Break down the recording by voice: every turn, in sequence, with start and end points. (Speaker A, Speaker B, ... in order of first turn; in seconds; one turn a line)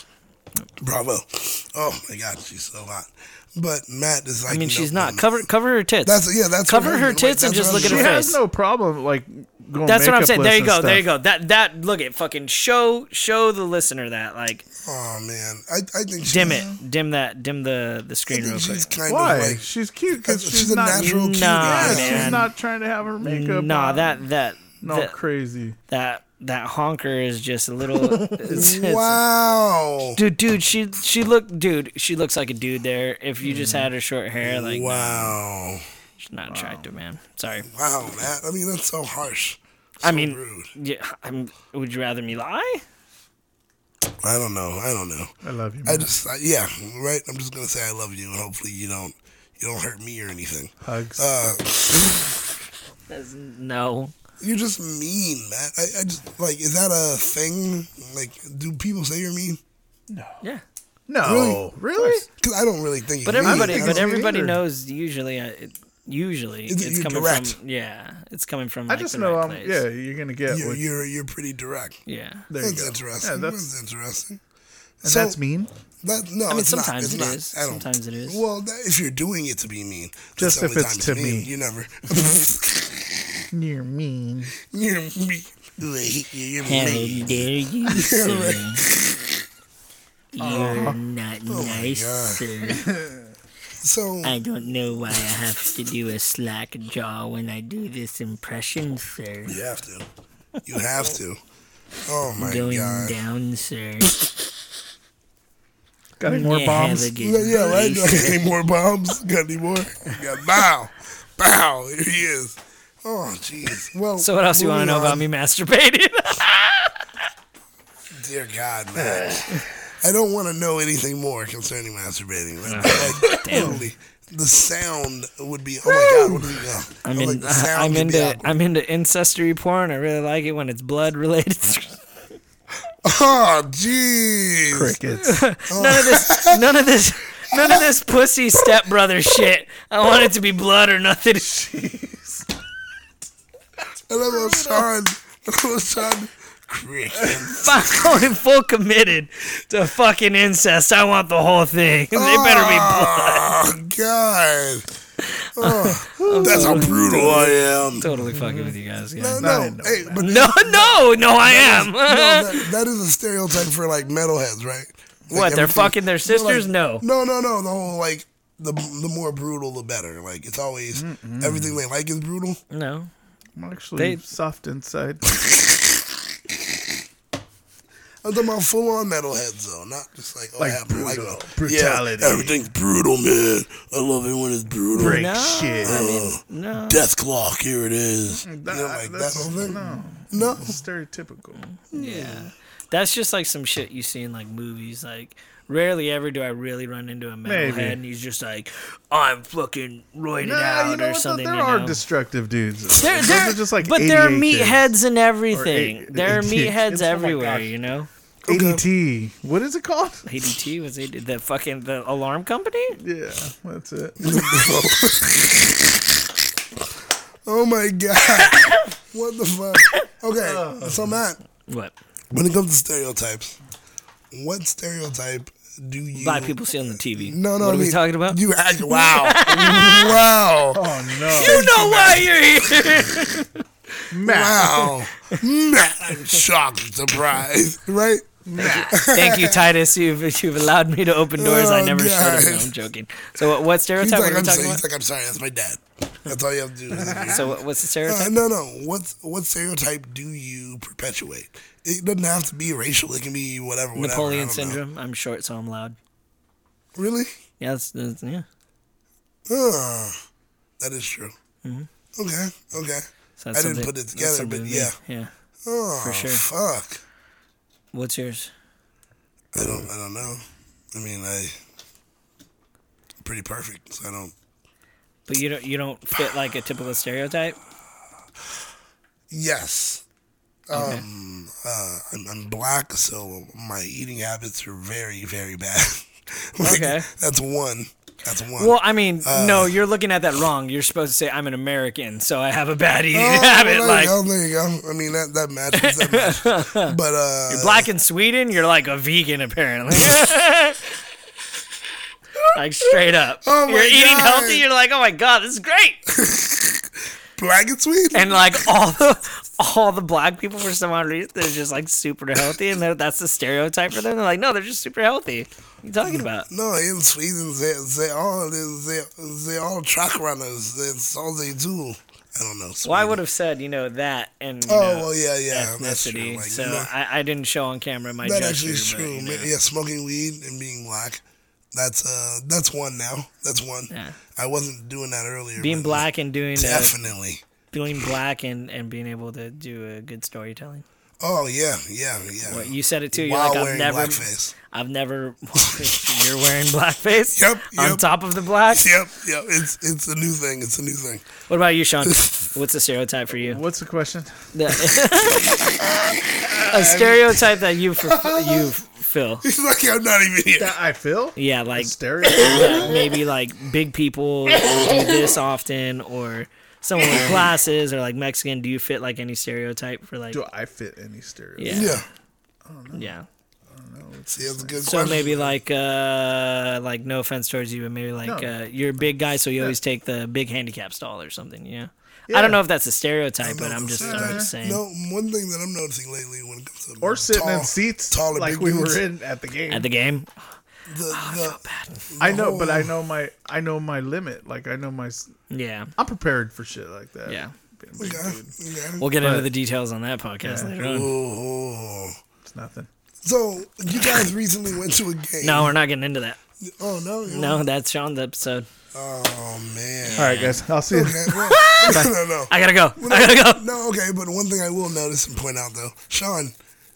Speaker A: 0.8-5.3
Speaker B: 4.5-8.4
Speaker A: 6.0-8.1
Speaker C: 7.7-11.0
Speaker B: 9.8-14.6
Speaker A: 14.8-16.7
Speaker B: 16.2-18.8
Speaker C: 16.4-16.8
Speaker A: 18.3-22.5
Speaker C: 19.1-24.2
Speaker B: 21.0-22.5
Speaker B: 23.2-25.1
Speaker C: 24.8-25.8
Speaker B: 25.9-29.2
Speaker C: 28.0-28.4
Speaker A: 28.5-30.2
Speaker B: 30.2-35.4
Speaker C: 33.4-33.9
Speaker A: 34.4-35.8
Speaker B: 36.3-37.7
Speaker C: 36.5-36.8
Speaker A: 37.6-40.7
Speaker B: 40.0-42.8
Speaker A: 44.2-45.3
Speaker C: 45.4-46.1
Speaker A: 45.8-52.4
Speaker C: 50.8-51.3
Speaker B: 53.1-54.1
Speaker A: 54.4-59.6
Speaker C: 60.1-60.4
Speaker C: 61.1-62.2
Speaker A: 61.2-61.6
Speaker B: 62.0-62.2
Speaker A: 62.4-64.1
Speaker B: 63.2-69.8
Speaker C: 63.4-64.6
Speaker A: 66.7-67.6
Speaker C: 68.9-70.8
Speaker A: 70.5-72.0
Speaker B: 72.1-72.5
Speaker C: 72.5-73.7
Speaker A: 72.6-74.4
Speaker A: 75.0-75.4
Speaker C: 75.0-75.7
Speaker A: 76.0-83.4
Speaker B: 76.5-78.4
Speaker C: 80.4-81.5
Speaker C: 83.5-84.5
Speaker A: 84.6-89.4
Speaker B: 86.6-88.8
Speaker B: 90.3-92.9
Speaker C: 90.4-91.0
Speaker A: 91.5-92.4
Speaker C: 92.8-93.2
Speaker A: 93.8-94.4
Speaker B: 94.2-99.5
Speaker A: 99.5-100.1
Speaker A: 100.7-101.4
Speaker A: 102.0-103.2
Speaker B: 102.4-104.1
Speaker C: 106.2-107.1
Speaker B: 106.2-108.4
Speaker A: 107.2-115.2
Speaker B: 114.2-117.0
Speaker A: 118.1-119.4
Speaker C: 119.2-119.4
Speaker A: 120.0-128.5
Speaker B: 122.7-123.8
Speaker C: 123.2-123.8
Speaker B: 126.0-126.3
Speaker B: 127.0-132.0
Speaker A: 133.0-134.9
Speaker C: 134.7-135.4
Speaker B: 135.2-141.5
Speaker A: 135.7-136.8
Speaker A: 137.5-137.8
Speaker C: 141.4-142.4
Speaker A: 144.1-148.0
Speaker C: 144.4-144.8
Speaker C: 147.2-147.4
Speaker B: 147.6-153.5
Speaker A: 152.1-154.8
Speaker B: 155.3-157.4
Speaker A: 155.6-158.0
Speaker C: 156.2-158.7
Speaker B: 157.9-159.5
Speaker A: 159.2-172.6
Speaker C: 159.4-160.3
Speaker B: 160.2-162.7
Speaker B: 165.3-167.0
Speaker C: 170.9-171.8
Speaker B: 172.7-173.1
Speaker C: 173.6-175.2
Speaker A: 175.4-176.0
Speaker A: 178.2-185.3
Speaker C: 180.6-182.6
Speaker C: 184.9-186.0
Speaker B: 185.0-187.0
Speaker A: 185.8-190.8
Speaker C: 188.4-191.6
Speaker B: 191.6-202.0
Speaker A: 191.9-192.5
Speaker C: 197.4-198.0
Speaker C: 200.4-204.9
Speaker B: 203.0-208.1
Speaker C: 205.5-207.7
Speaker A: 208.4-208.8
Speaker C: 208.5-210.2
Speaker B: 210.2-213.0
Speaker C: 213.0-214.4
Speaker A: 214.2-216.3
Speaker A: 217.4-221.4
Speaker B: 218.3-218.9
Speaker C: 220.4-221.1
Speaker B: 221.7-221.9
Speaker A: 222.3-223.6
Speaker A: 224.3-226.6
Speaker B: 226.2-230.2
Speaker A: 227.1-232.3
Speaker C: 230.7-231.7
Speaker B: 231.3-233.6
Speaker C: 234.1-234.9
Speaker A: 234.2-239.7
Speaker C: 238.4-238.9
Speaker B: 238.6-244.8
Speaker A: 241.3-242.7
Speaker A: 244.0-254.8
Speaker C: 246.9-247.4
Speaker B: 247.0-248.3
Speaker B: 253.9-255.9
Speaker A: 256.9-257.3
Speaker B: 257.6-258.4
Speaker A: 259.5-260.1
Speaker A: 260.8-261.3
Speaker B: 261.6-261.9
Speaker A: 262.1-264.9
Speaker B: 263.4-265.3
Speaker A: 265.6-267.0
Speaker B: 266.0-266.4
Speaker B: 267.9-268.5
Speaker A: 269.5-271.6
Speaker A: 273.2-274.3
Speaker B: 275.3-277.6
Speaker A: 279.3-280.0
Speaker A: 280.7-289.8
Speaker B: 280.7-281.0
Speaker B: 286.6-287.1
Speaker B: 288.6-294.1
Speaker A: 293.1-297.9
Speaker B: 295.7-296.9
Speaker B: 297.5-300.9
Speaker B: 302.5-306.0
Speaker A: 303.4-304.6
Speaker A: 306.1-308.7
Speaker B: 308.1-316.5
Speaker A: 316.0-323.2
Speaker B: 322.8-329.5
Speaker A: 324.6-326.9
Speaker A: 328.2-331.2
Speaker A: 331.7-337.4
Speaker B: 333.9-334.2
Speaker B: 335.6-336.9
Speaker B: 337.7-340.8
Speaker A: 341.2-344.5
Speaker B: 342.5-348.9
Speaker A: 345.7-345.9
Speaker A: 347.3-348.0
Speaker A: 348.7-351.3
Speaker B: 351.5-353.6
Speaker A: 352.0-352.5
Speaker C: 353.4-354.4
Speaker B: 354.5-355.9
Speaker C: 356.4-357.4
Speaker B: 356.6-359.4
Speaker A: 358.0-358.7
Speaker A: 359.4-360.7
Speaker C: 360.6-363.0
Speaker B: 361.4-370.4
Speaker A: 362.6-362.9
Speaker C: 370.3-371.9
Speaker B: 371.6-372.0
Speaker A: 371.7-372.1
Speaker C: 372.6-373.1
Speaker B: 372.9-373.2
Speaker C: 373.7-375.0
Speaker A: 374.3-375.6
Speaker B: 374.8-384.8
Speaker C: 378.2-379.8
Speaker C: 382.3-382.6
Speaker A: 383.4-389.0
Speaker C: 384.0-384.5
Speaker C: 387.0-389.9
Speaker B: 389.7-390.3
Speaker A: 390.9-392.9
Speaker B: 391.1-392.1
Speaker C: 392.2-395.3
Speaker B: 395.5-395.9
Speaker C: 396.0-398.5
Speaker B: 397.3-397.5
Speaker A: 398.0-399.1
Speaker B: 399.0-401.1
Speaker C: 399.2-399.5
Speaker C: 400.4-400.8
Speaker A: 400.8-402.2
Speaker C: 402.5-402.9
Speaker A: 403.2-405.7
Speaker B: 403.9-404.2
Speaker B: 405.4-406.4
Speaker A: 406.6-407.6
Speaker B: 407.3-408.7
Speaker A: 408.9-410.3
Speaker B: 410.0-410.6
Speaker C: 410.2-411.4
Speaker A: 410.9-416.5
Speaker B: 411.3-413.7